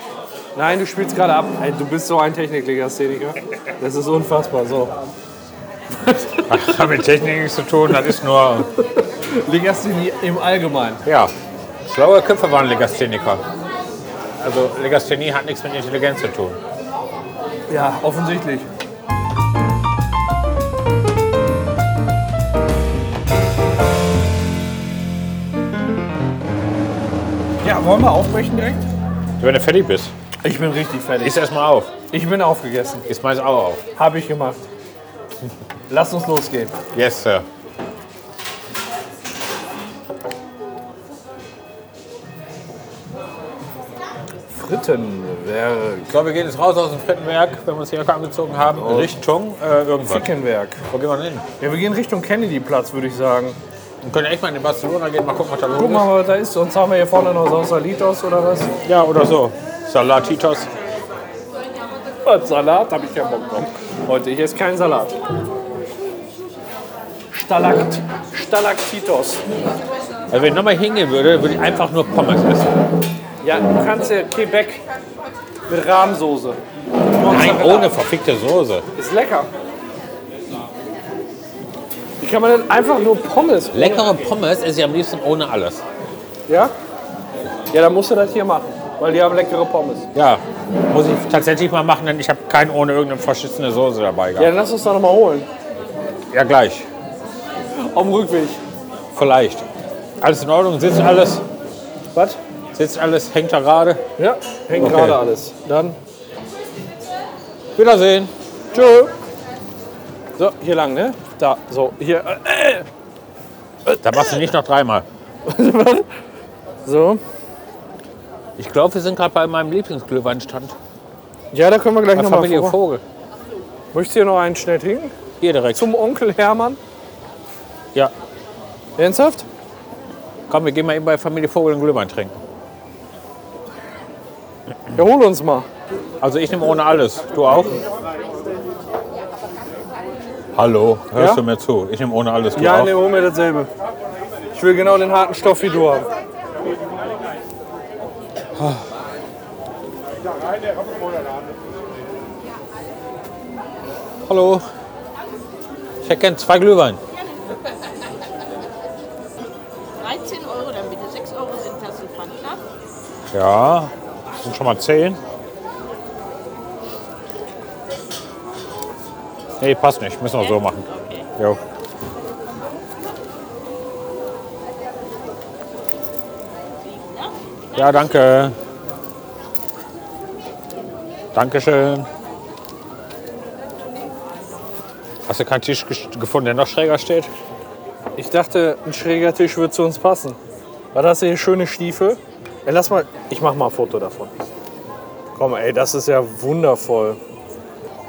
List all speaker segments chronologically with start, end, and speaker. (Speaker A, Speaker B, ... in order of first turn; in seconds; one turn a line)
Speaker A: 0.6-4.9
Speaker A: 5.9-6.8
Speaker B: 6.5-8.7
Speaker A: 8.8-11.0
Speaker B: 11.0-11.3
Speaker B: 11.8-13.4
Speaker B: 14.4-16.6
Speaker A: 17.7-18.7
Speaker A: 27.6-28.9
Speaker B: 29.4-30.1
Speaker A: 30.4-31.4
Speaker B: 31.2-31.9
Speaker A: 32.1-33.0
Speaker B: 33.1-33.8
Speaker A: 34.0-34.6
Speaker A: 35.9-36.8
Speaker B: 36.9-37.5
Speaker A: 44.5-46.1
Speaker B: 46.1-50.3
Speaker A: 48.8-49.1
Speaker A: 50.0-50.8
Speaker B: 50.9-51.4
Speaker A: 51.6-53.6
Speaker B: 54.0-56.1
Speaker A: 55.7-58.7
Speaker B: 58.8-60.7
Speaker A: 62.2-65.2
Speaker A: 67.3-69.4
Speaker B: 70.3-72.8
Speaker A: 73.4-74.8
Speaker A: 75.7-78.0
Speaker B: 77.3-78.8
Speaker A: 79.0-79.5
Speaker A: 82.2-84.1
Speaker B: 83.7-85.8
Speaker A: 86.5-86.7
Speaker A: 87.7-90.1
Speaker B: 90.1-94.5
Speaker A: 94.4-95.5
Speaker B: 96.3-96.9
Speaker A: 97.8-98.6
Speaker B: 99.1-99.6
Speaker B: 100.2-101.4
Speaker A: 102.1-102.4
Speaker B: 102.7-104.0
Speaker A: 104.2-106.0
Speaker B: 104.7-105.2
Speaker B: 107.8-108.3
Speaker A: 108.7-109.1
Speaker A: 110.3-112.9
Speaker B: 114.0-115.0
Speaker A: 115.5-116.1
Speaker A: 116.8-117.2
Speaker B: 118.6-120.8
Speaker A: 121.5-122.8
Speaker B: 122.1-123.0
Speaker A: 123.9-125.1
Speaker B: 125.4-125.9
Speaker A: 125.7-126.8
Speaker A: 129.0-129.4
Speaker B: 130.5-132.3
Speaker A: 134.9-135.7
Speaker B: 136.2-137.8
Speaker B: 140.5-142.9
Speaker A: 141.2-141.4
Speaker A: 142.5-143.7
Speaker A: 144.5-146.1
Speaker B: 148.6-148.8
Speaker B: 154.2-154.6
Speaker B: 156.0-157.0
Speaker C: 160.0-162.6
Speaker B: 163.3-165.2
Speaker B: 169.6-171.6
Speaker B: 177.7-178.5
Speaker B: 181.3-182.1
Speaker B: 185.3-187.3
Speaker A: 188.2-190.4
Speaker A: 190.9-194.3
Speaker A: 195.3-197.2